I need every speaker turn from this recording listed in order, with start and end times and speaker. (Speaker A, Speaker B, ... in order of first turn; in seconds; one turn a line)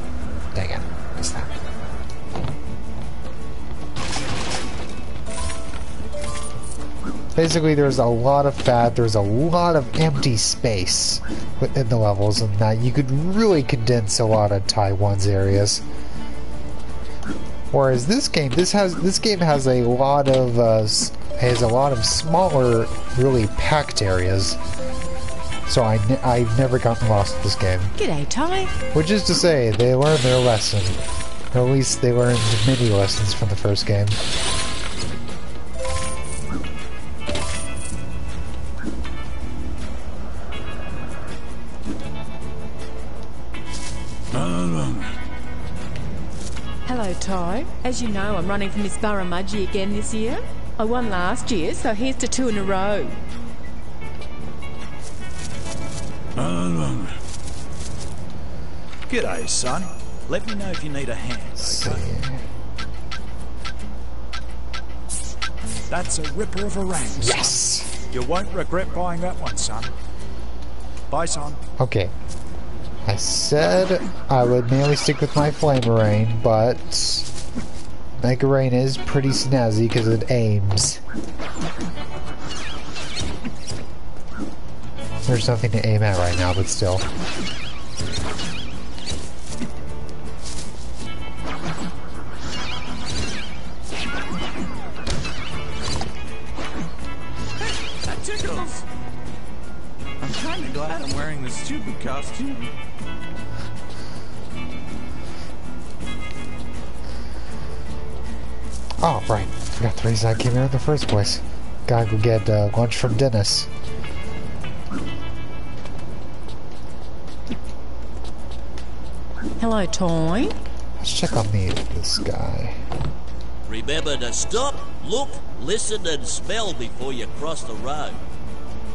Speaker A: 0.5-1.5
Speaker A: 7.3-15.8
Speaker A: 17.7-24.6
Speaker A: 25.7-27.9
Speaker B: 28.0-28.7
Speaker A: 28.9-31.0
Speaker A: 31.5-34.2
Speaker B: 46.9-53.1
Speaker C: 56.4-57.1
Speaker C: 59.1-62.0
Speaker A: 61.6-62.5
Speaker C: 65.9-69.9
Speaker A: 67.1-67.9
Speaker C: 71.1-71.6
Speaker A: 71.8-72.1
Speaker A: 73.0-77.3
Speaker A: 78.2-81.0
Speaker A: 85.3-87.1
Speaker D: 97.6-98.8
Speaker D: 100.2-102.7
Speaker A: 109.0-113.7
Speaker B: 119.6-120.6
Speaker A: 121.0-122.8
Speaker E: 123.7-128.2